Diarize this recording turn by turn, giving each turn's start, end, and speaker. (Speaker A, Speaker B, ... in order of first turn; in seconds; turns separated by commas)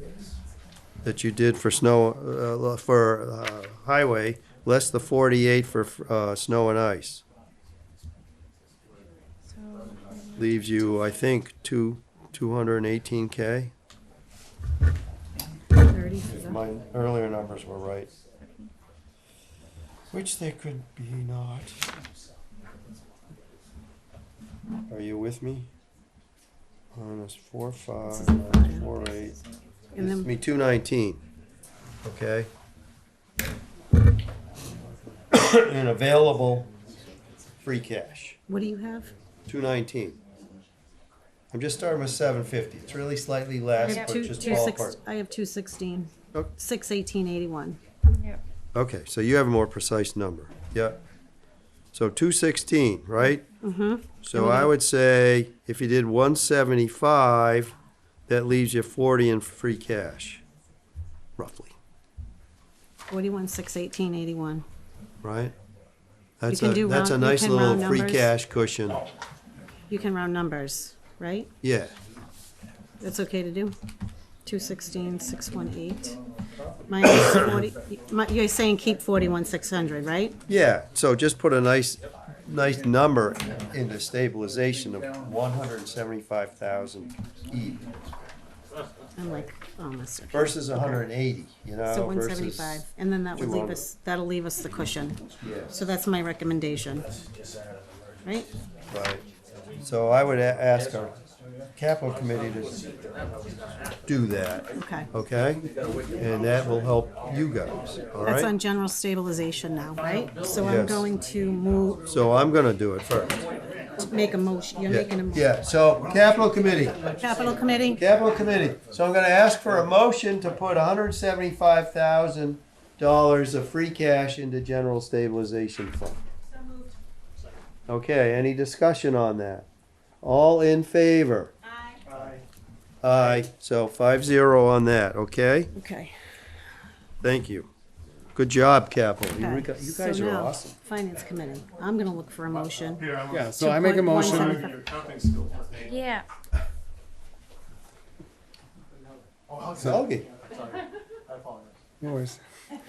Speaker A: 1.0-7.2, Speaker B: 9.5-11.2, Speaker A: 10.3-13.7, Speaker C: 15.8-16.6, Speaker A: 16.3-18.1, Speaker B: 18.4-18.7, Speaker A: 20.1-21.8, Speaker A: 24.9-25.7, Speaker A: 26.9-29.4, Speaker C: 28.1-28.9, Speaker C: 29.9-30.3, Speaker A: 30.0-31.2, Speaker A: 32.0-32.5, Speaker A: 35.3-36.7, Speaker A: 37.6-38.4, Speaker C: 38.5-39.1, Speaker A: 39.5-40.2, Speaker A: 41.5-45.0, Speaker C: 43.8-47.8, Speaker B: 43.8-44.7, Speaker B: 48.1-48.4, Speaker A: 48.7-51.0, Speaker A: 51.9-53.5, Speaker C: 53.6-54.7, Speaker A: 54.2-57.7, Speaker A: 58.3-60.4, Speaker A: 61.4-61.7, Speaker C: 63.1-64.6, Speaker A: 65.2-65.5, Speaker A: 66.4-69.0, Speaker C: 66.5-68.3, Speaker C: 69.9-71.5, Speaker A: 71.6-71.9, Speaker C: 73.0-73.8, Speaker C: 74.4-76.2, Speaker C: 76.9-80.4, Speaker A: 80.5-87.8, Speaker C: 89.2-91.0, Speaker A: 90.3-92.8, Speaker C: 91.8-97.0, Speaker A: 93.3-93.8, Speaker A: 95.4-95.8, Speaker C: 98.2-98.5, Speaker A: 98.9-99.2, Speaker A: 99.8-101.2, Speaker A: 101.8-102.9, Speaker A: 104.1-108.5, Speaker C: 104.8-105.1, Speaker C: 108.2-112.0, Speaker A: 110.6-111.1, Speaker A: 112.1-113.3, Speaker C: 114.0-115.5, Speaker A: 114.9-117.0, Speaker C: 117.2-118.0, Speaker A: 118.0-126.2, Speaker A: 127.9-129.7, Speaker A: 130.2-131.5, Speaker A: 133.0-135.7, Speaker C: 135.7-136.1, Speaker A: 137.2-137.7, Speaker A: 138.3-139.8, Speaker C: 139.3-144.8, Speaker D: 139.7-140.7, Speaker D: 143.3-144.7, Speaker B: 145.8-146.2, Speaker A: 149.8-150.3, Speaker D: 152.0-152.4